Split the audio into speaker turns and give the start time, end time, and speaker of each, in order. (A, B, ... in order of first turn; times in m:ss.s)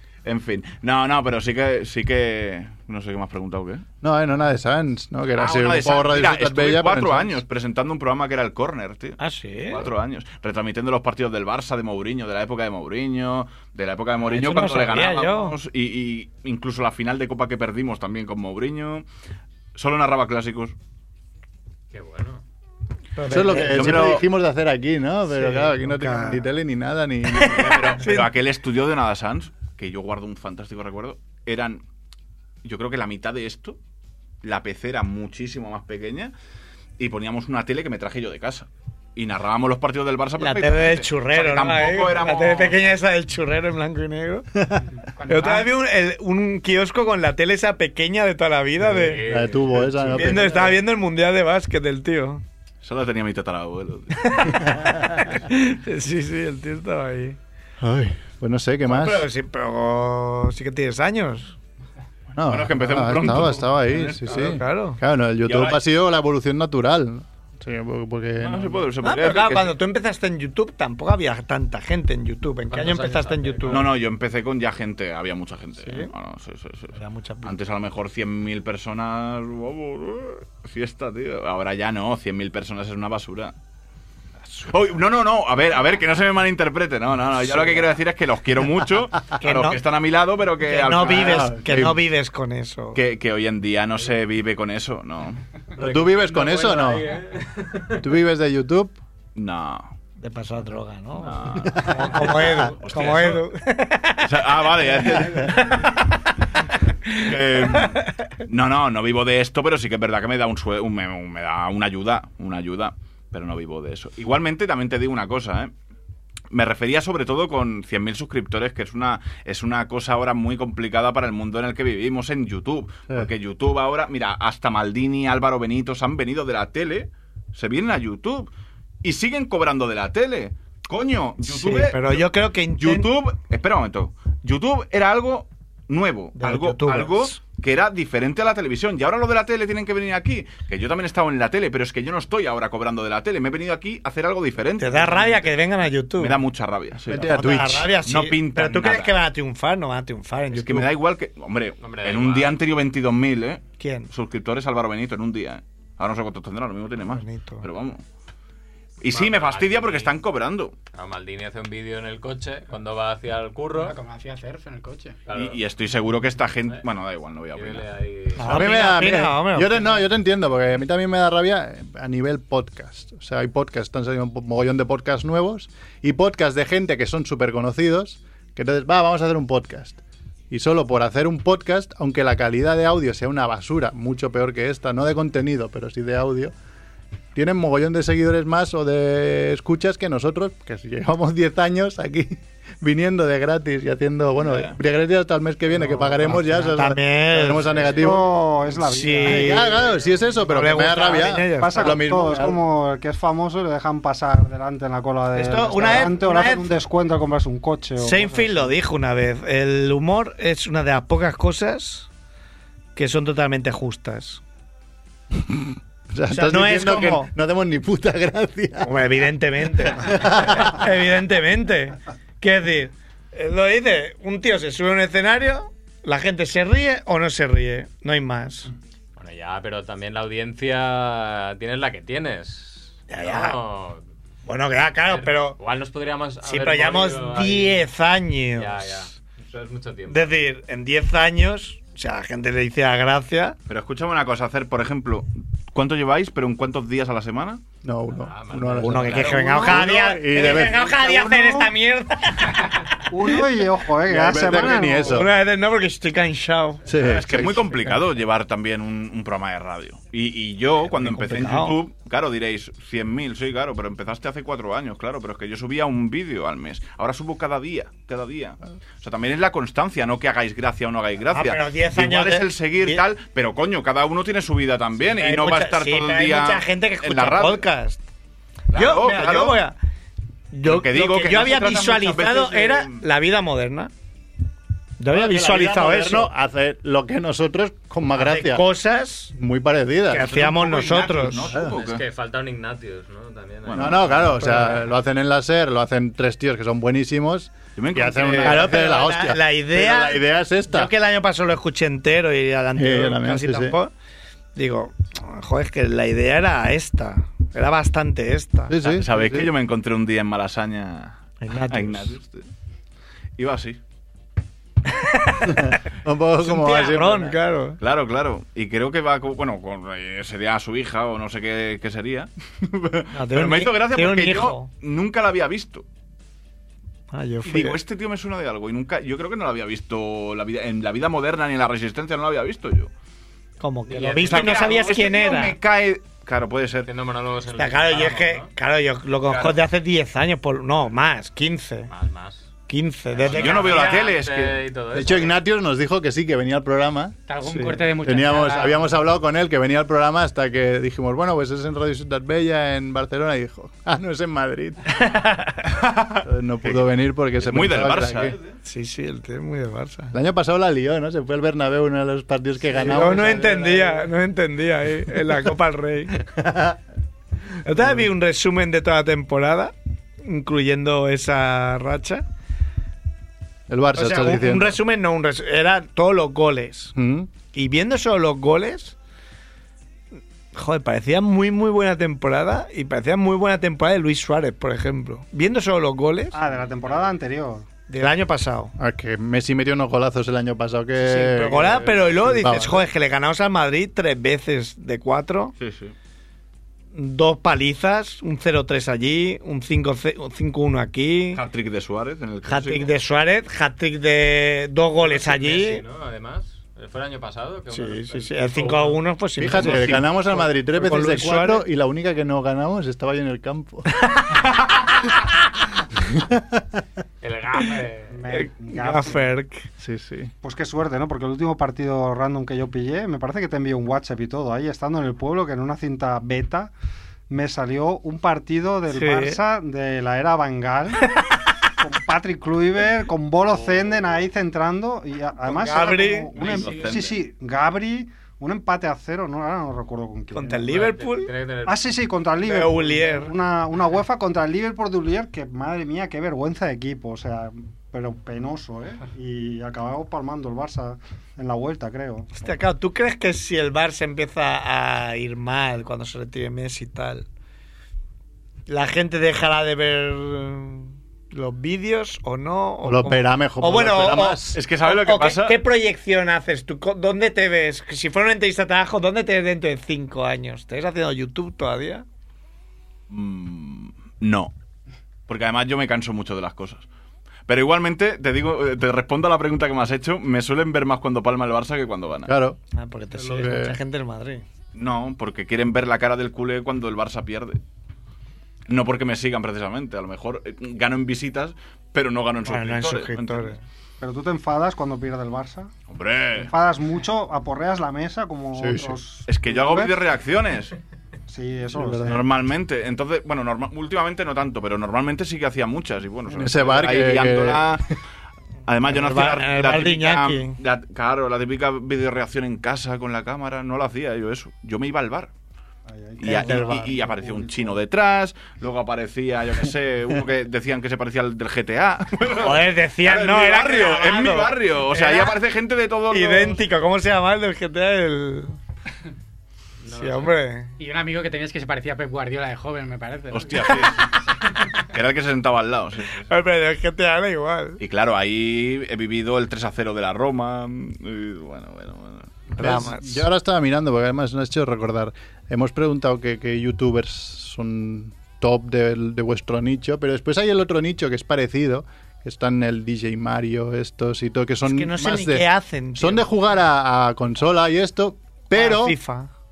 0:00.2-0:03.8 A
0:04.0-0:07.4 B
0:05.4-0:19.0 A
0:09.2-0:09.9 C
0:14.3-0:15.6 C
0:19.7-0:20.7 A
0:21.9-0:22.4 D
0:23.2-0:24.2 C
0:23.3-0:28.0 B
0:23.4-0:24.2 A
0:25.3-0:26.4 C
0:27.3-0:28.3 C
0:27.4-0:31.8 A
0:32.6-0:33.8 A
0:34.4-0:36.3 A
0:37.0-0:42.8 A
0:40.4-0:44.5 C
0:44.6-0:44.8 B
0:45.2-0:45.7 E
0:45.3-0:49.2 C
0:48.9-0:50.3 D
0:49.2-0:50.6 B
0:50.0-0:50.5 A
0:50.1-0:52.4 C
0:52.8-0:54.5 A
0:54.2-0:57.4 C
0:57.8-0:59.3 B
0:58.8-1:01.5 C
1:02.4-1:08.9 B
1:02.4-1:04.6 A
1:04.3-1:05.0 C
1:05.4-1:05.8 A
1:08.4-1:09.7 A
1:09.0-1:13.9 C
1:12.7-1:13.9 D
1:13.7-1:23.5 A
1:15.8-1:16.1 C
1:16.9-1:17.6 C
1:24.7-1:31.5 A
1:29.4-1:29.8 C
1:30.6-1:33.0 C
1:31.1-1:32.0 B
1:32.9-1:35.4 A
1:35.8-1:38.0 D
1:35.8-1:37.1 B
1:38.0-1:39.0 B
1:39.3-1:39.9 A
1:40.2-1:46.0 C
1:41.2-1:43.5 A
1:41.6-1:42.7 D
1:44.2-1:45.9 A
1:47.1-1:48.0 C
1:47.1-1:55.7 A
1:56.5-2:08.5 A
2:09.0-2:25.6 A
2:11.4-2:13.1 C
2:16.4-2:17.4 C
2:24.8-2:26.4 C
2:26.1-2:27.4 A
2:27.1-2:27.9 B
2:27.2-2:30.9 C
2:28.0-2:29.2 A
2:30.5-2:38.0 A
2:31.8-2:32.6 D
2:33.8-2:34.1 C
2:37.0-2:37.7 C
2:39.0-2:40.7 A
2:39.1-2:40.1 D
2:40.9-2:44.0 D
2:43.8-2:45.2 E
2:45.3-2:45.6 D
2:45.3-2:47.9 A
2:47.5-2:48.5 D
2:48.4-2:50.0 C
2:48.4-3:06.5 B
3:07.3-3:18.3 B
3:14.4-3:14.8 A
3:15.8-3:18.2 C
3:17.8-3:20.0 F
3:18.8-3:19.9 C
3:19.2-3:22.6 B
3:20.4-3:22.0 C
3:21.6-3:28.7 F
3:25.3-3:26.7 C
3:28.0-3:32.1 C
3:32.9-3:34.4 C
3:35.4-3:39.0 B
3:36.3-3:37.3 C
3:38.8-3:48.7 C
3:39.8-3:40.8 B
3:49.2-3:54.0 D
3:53.1-3:53.6 C
3:54.4-3:55.6 C
3:55.1-3:57.8 D
3:56.4-3:58.9 C
3:58.6-4:00.3 D
4:00.1-4:03.6 C
4:03.7-4:07.6 A
4:07.8-4:10.9 B
4:08.1-4:09.7 D
4:08.8-4:13.4 C
4:10.4-4:11.7 F
4:13.1-4:15.2 F
4:14.0-4:15.3 B
4:15.0-4:16.9 C
4:16.9-4:17.7 B
4:17.0-4:37.6 A
4:20.9-4:21.8 C
4:31.3-4:33.0 C
4:35.0-4:38.0 C
4:38.7-4:39.6 A
4:38.7-4:39.8 C
4:40.5-4:43.9 C
4:40.6-4:43.0 A
4:45.0-4:46.3 C
4:45.1-4:48.6 B
4:48.1-4:49.3 C
4:49.3-4:50.3 B
4:50.1-4:51.5 C
4:50.2-4:52.0 A
4:51.7-4:54.1 D
4:53.6-4:54.4 A
4:53.7-5:00.9 B
4:57.8-4:58.7 A
4:58.4-5:03.9 C
5:02.8-5:03.8 B
5:04.5-5:08.7 C
5:08.7-5:09.5 B
5:08.8-5:12.5 A
5:11.4-5:12.1 C
5:13.4-5:13.8 A
5:14.9-5:15.8 C
5:15.4-5:17.4 B
5:16.4-5:17.8 C
5:17.8-5:25.8 A
5:23.1-5:24.7 C
5:27.1-5:27.8 C
5:27.4-5:32.9 A
5:33.6-5:35.6 C
5:33.9-5:34.9 D
5:34.2-5:36.9 A
5:36.9-5:38.5 D
5:37.6-5:41.9 C
5:39.3-5:39.5 A
5:41.9-5:42.5 D
5:42.7-5:43.9 C
5:43.1-5:45.3 D
5:43.2-5:44.6 A
5:44.9-5:55.0 B
5:47.3-5:48.9 E
5:55.6-5:56.8 A
5:56.2-5:58.4 B
5:57.4-5:58.6 A
5:58.6-6:00.1 C
6:00.1-6:04.1 B
6:02.7-6:06.3 C
6:06.4-6:06.8 B
6:07.6-6:12.2 C
6:07.8-6:08.0 B
6:13.7-6:14.8 B
6:13.9-6:16.9 C
6:16.9-6:17.3 B
6:17.5-6:19.0 C
6:20.5-6:26.4 C
6:26.3-6:27.6 F
6:27.9-6:28.7 C
6:28.8-6:32.9 B
6:31.0-6:35.5 C
6:35.6-6:35.9 A
6:36.9-6:41.4 C
6:41.3-6:42.9 A
6:42.4-6:45.8 C
6:45.0-6:49.0 D
6:47.7-6:51.6 C
6:49.4-6:53.9 B
6:56.1-6:56.6 B
6:57.2-6:58.2 D
6:58.1-6:59.3 F
6:58.3-6:59.7 C
6:59.8-7:00.3 B
7:00.4-7:06.7 F
7:07.3-7:11.2 F
7:08.9-7:09.4 C
7:11.8-7:20.7 F
7:13.5-7:14.0 D
7:15.4-7:16.3 C
7:16.4-7:16.8 D
7:16.4-7:17.2 A
7:20.3-7:21.3 C
7:20.7-7:21.9 D
7:21.6-7:32.6 F
7:22.4-7:23.3 C
7:32.4-7:37.2 C
7:38.7-7:52.0 C
7:42.8-7:44.6 B
7:44.5-7:45.6 A
7:53.1-7:54.5 A
7:55.3-7:56.8 A
7:57.5-8:02.3 A
8:02.3-8:02.6 B
8:02.7-8:04.4 C
8:03.2-8:03.8 B
8:04.7-8:07.6 A
8:08.7-8:13.6 A
8:12.4-8:13.6 C
8:14.0-8:15.7 F
8:15.9-8:16.5 A
8:16.4-8:20.0 F
8:18.5-8:19.0 B
8:19.3-8:20.7 A
8:21.3-8:22.2 F
8:21.7-8:22.2 B
8:22.0-8:27.9 A
8:26.3-8:28.0 B
8:28.7-8:35.3 A
8:28.9-8:30.6 C
8:35.9-8:37.8 F
8:36.2-8:46.6 A
8:36.2-8:37.0 C
8:42.4-8:45.4 C
8:46.1-8:48.6 C
8:49.8-8:50.3 D
8:49.9-8:50.7 C
8:50.8-8:53.9 E
8:53.3-8:54.2 A
8:54.8-8:56.3 A
8:56.3-8:57.8 C
8:57.8-9:02.4 A
9:02.5-9:03.2 C
9:02.6-9:19.0 B
9:14.6-9:16.3 C
9:18.5-9:19.3 C